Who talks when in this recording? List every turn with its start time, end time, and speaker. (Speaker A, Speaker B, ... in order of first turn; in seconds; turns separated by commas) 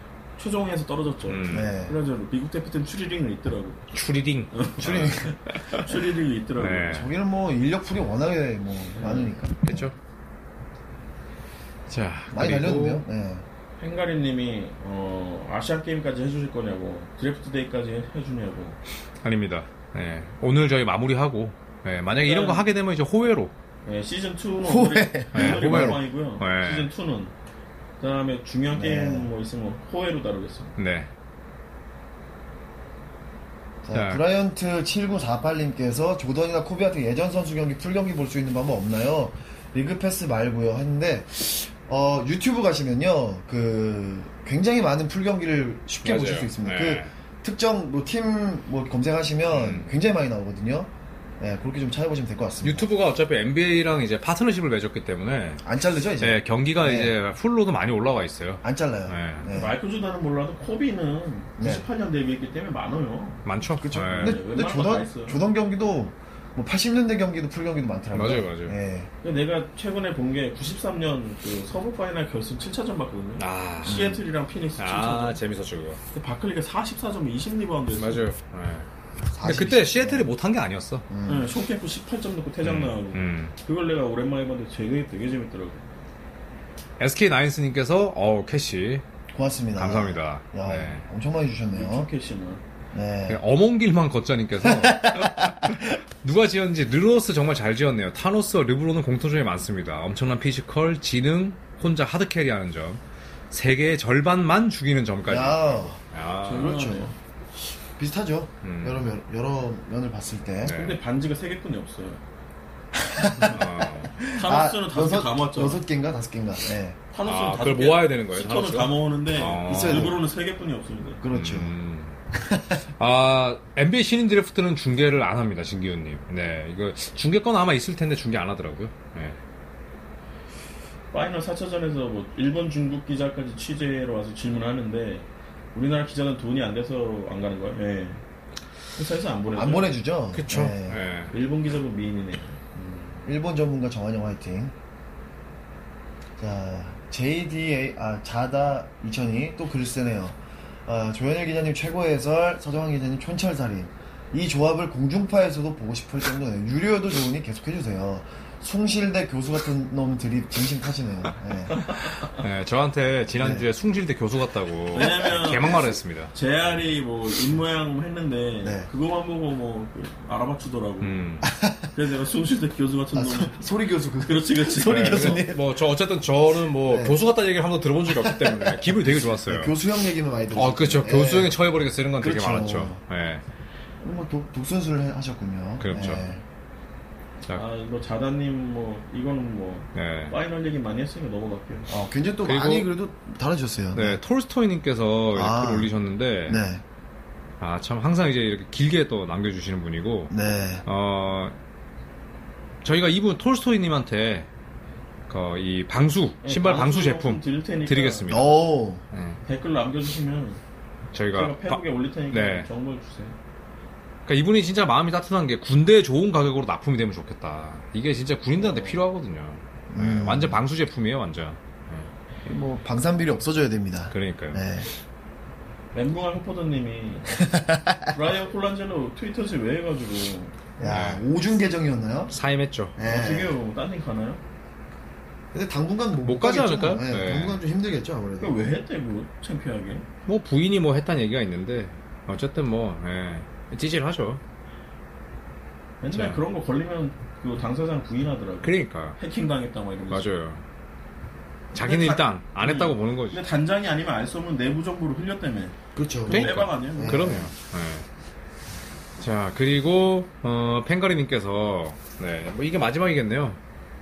Speaker A: 0.4-3.9, Speaker B: 1.3-1.7, Speaker C: 1.5-2.0, Speaker B: 3.9-5.3, Speaker A: 4.5-6.9, Speaker C: 4.8-5.3, Speaker B: 6.6-7.1, Speaker C: 6.8-9.9, Speaker A: 9.0-9.3, Speaker B: 9.6-9.9, Speaker B: 11.9-13.1, Speaker C: 12.3-13.4, Speaker A: 13.8-18.8, Speaker B: 19.2-23.5, Speaker A: 22.1-22.7, Speaker A: 23.8-27.3, Speaker C: 24.6-26.0, Speaker B: 25.3-26.9, Speaker A: 28.0-30.7, Speaker C: 28.7-29.3, Speaker B: 30.8-31.1, Speaker C: 33.9-50.9, Speaker B: 33.9-34.2, Speaker B: 46.0-47.1, Speaker B: 49.5-50.0, Speaker C: 51.4-52.9, Speaker B: 52.6-55.6, Speaker C: 55.6-57.1, Speaker B: 56.2-59.5, Speaker C: 58.6-59.8, Speaker A: 59.5-63.4, Speaker C: 61.6-61.9, Speaker B: 63.5-64.4, Speaker C: 63.8-69.1, Speaker A: 64.2-65.5, Speaker B: 68.1-68.8, Speaker A: 69.2-75.4, Speaker B: 73.4-74.2, Speaker C: 73.9-74.2, Speaker B: 74.8-76.0, Speaker A: 76.1-78.3, Speaker B: 78.0-78.9, Speaker C: 79.3-80.3, Speaker B: 79.4-81.0, Speaker C: 81.1-81.5, Speaker A: 81.3-85.8, Speaker B: 82.6-83.5, Speaker B: 87.0-89.0, Speaker C: 89.3-92.1, Speaker B: 89.8-91.0, Speaker A: 91.7-92.6, Speaker C: 92.9-93.4, Speaker B: 93.3-103.0, Speaker C: 94.6-95.8, Speaker B: 103.5-106.8, Speaker C: 105.3-106.0, Speaker A: 106.5-107.2, Speaker C: 106.5-107.1, Speaker C: 108.0-110.8, Speaker B: 108.6-109.0, Speaker B: 110.6-111.0, Speaker A: 110.7-112.2, Speaker C: 113.0-117.0, Speaker B: 113.4-114.1, Speaker A: 114.3-115.8, Speaker A: 117.1-121.2, Speaker B: 117.2-120.2, Speaker C: 119.7-120.2, Speaker C: 121.2-121.8, Speaker B: 121.3-122.2, Speaker C: 122.3-122.8, Speaker B: 123.0-129.4, Speaker A: 131.1-138.2, Speaker A: 138.9-139.9, Speaker C: 139.5-141.0, Speaker B: 140.3-141.3, Speaker A: 141.3-143.3, Speaker C: 143.3-144.7, Speaker C: 146.4-161.8, Speaker A: 161.8-162.3, Speaker B: 162.3-166.3, Speaker C: 163.4-163.7, Speaker A: 164.9-171.2, Speaker C: 165.1-165.9, Speaker C: 168.6-168.9, Speaker B: 171.0-171.5, Speaker C: 171.4-171.9, Speaker A: 171.9-175.5, Speaker C: 173.1-175.6, Speaker B: 174.8-179.8, Speaker C: 176.8-177.2, Speaker C: 178.2-178.8, Speaker C: 179.4-181.6, Speaker B: 180.5-183.4, Speaker C: 182.2-183.0, Speaker C: 184.0-186.4, Speaker B: 185.8-186.2, Speaker A: 187.5-191.9, Speaker B: 189.9-190.4, Speaker C: 191.9-194.2, Speaker B: 192.4-192.9, Speaker B: 193.9-196.6, Speaker C: 195.3-195.9, Speaker C: 196.5-196.8, Speaker B: 197.6-201.6, Speaker C: 200.3-200.8, Speaker B: 202.8-204.5, Speaker B: 205.3-209.4, Speaker A: 206.4-208.3, Speaker C: 208.3-209.0, Speaker A: 209.4-210.6, Speaker B: 211.1-212.7, Speaker A: 211.3-213.3, Speaker B: 214.3-222.1, Speaker A: 218.6-219.0, Speaker C: 219.9-220.6, Speaker C: 222.5-224.9, Speaker B: 224.1-224.6, Speaker A: 225.9-230.6, Speaker C: 227.4-228.1, Speaker C: 230.8-232.3, Speaker B: 230.8-231.2, Speaker B: 232.3-233.0, Speaker C: 233.0-233.6, Speaker A: 233.1-234.4, Speaker C: 235.5-238.7, Speaker B: 236.2-237.6, Speaker A: 238.4-240.1, Speaker B: 240.3-244.4, Speaker A: 246.0-250.3, Speaker B: 246.1-246.4, Speaker B: 248.6-249.2, Speaker B: 250.1-250.6, Speaker B: 251.7-253.4, Speaker A: 251.8-255.8, Speaker C: 255.9-257.5, Speaker A: 256.3-257.3, Speaker B: 256.3-258.1, Speaker B: 259.2-263.6